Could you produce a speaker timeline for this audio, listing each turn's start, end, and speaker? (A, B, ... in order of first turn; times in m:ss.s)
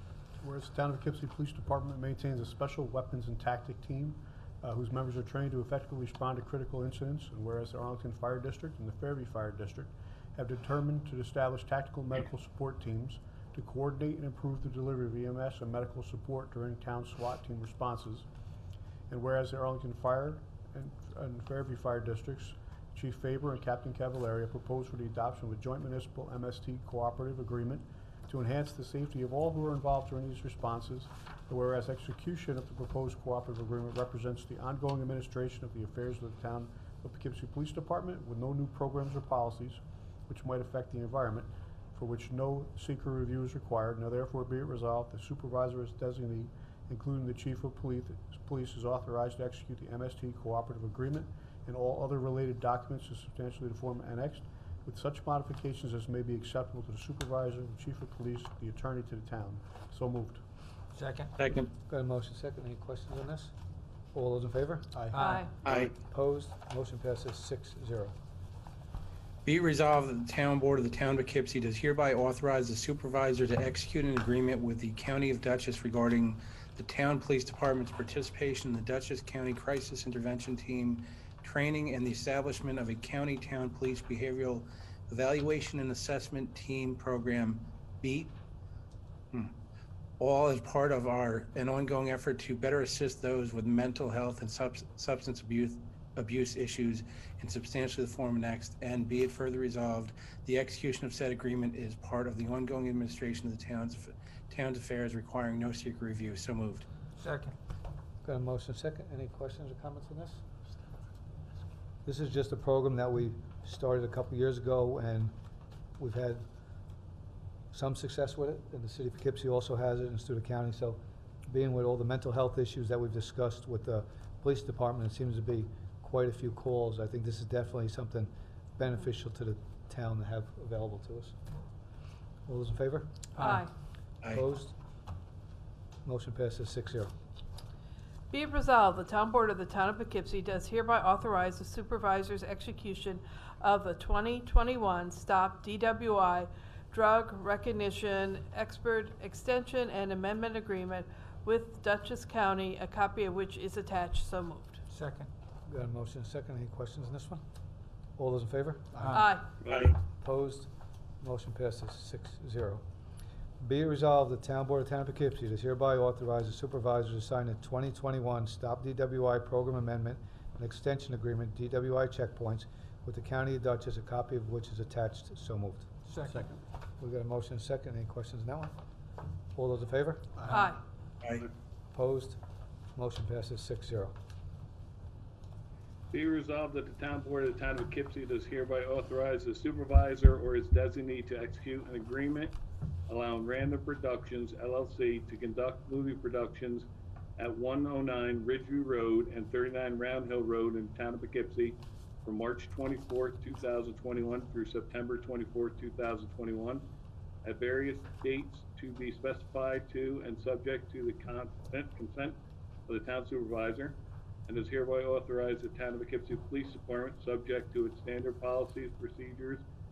0:00.4-0:18.3 A
0:19.1-1:00.4 A
1:00.9-1:01.3 B
1:01.4-1:01.7 C
1:01.8-1:03.5 D
1:04.1-1:04.9 D
1:04.9-1:05.3 A
1:05.1-1:05.5 B
1:05.2-1:05.5 E
1:05.6-1:05.9 C
1:05.6-1:08.1 D
1:09.4-1:28.3 C
1:30.2-1:46.8 C
1:47.2-1:47.6 B
1:48.2-1:50.4 D
1:52.0-1:55.3 D
1:56.0-1:56.4 D
1:57.7-2:11.3 D
2:12.5-2:13.1 D
2:13.4-2:13.7 B
2:13.4-2:13.7 E
2:14.2-2:14.5 C
2:14.3-2:14.8 D
2:16.0-2:17.1 D
2:18.3-2:34.8 E
2:34.9-2:35.3 B
2:35.7-2:37.4 D
2:38.2-2:39.0 D
2:38.9-2:39.2 A
2:39.0-2:39.5 B
2:39.1-2:39.5 E
2:39.6-2:40.0 F
2:40.2-2:40.7 D
2:41.2-2:42.8 D
2:43.6-2:55.9 D
2:56.1-2:56.4 B
2:56.2-2:56.6 A
2:57.0-2:58.8 D
2:59.6-3:00.3 D
3:00.4-3:00.7 A
3:00.5-3:00.8 E
3:01.9-3:02.4 D
3:03.0-3:04.1 D
3:06.1-3:12.5 F
3:13.1-3:16.9 F
3:17.4-3:26.8 F
3:27.4-3:32.4 F
3:32.9-3:34.0 F
3:34.5-3:39.6 F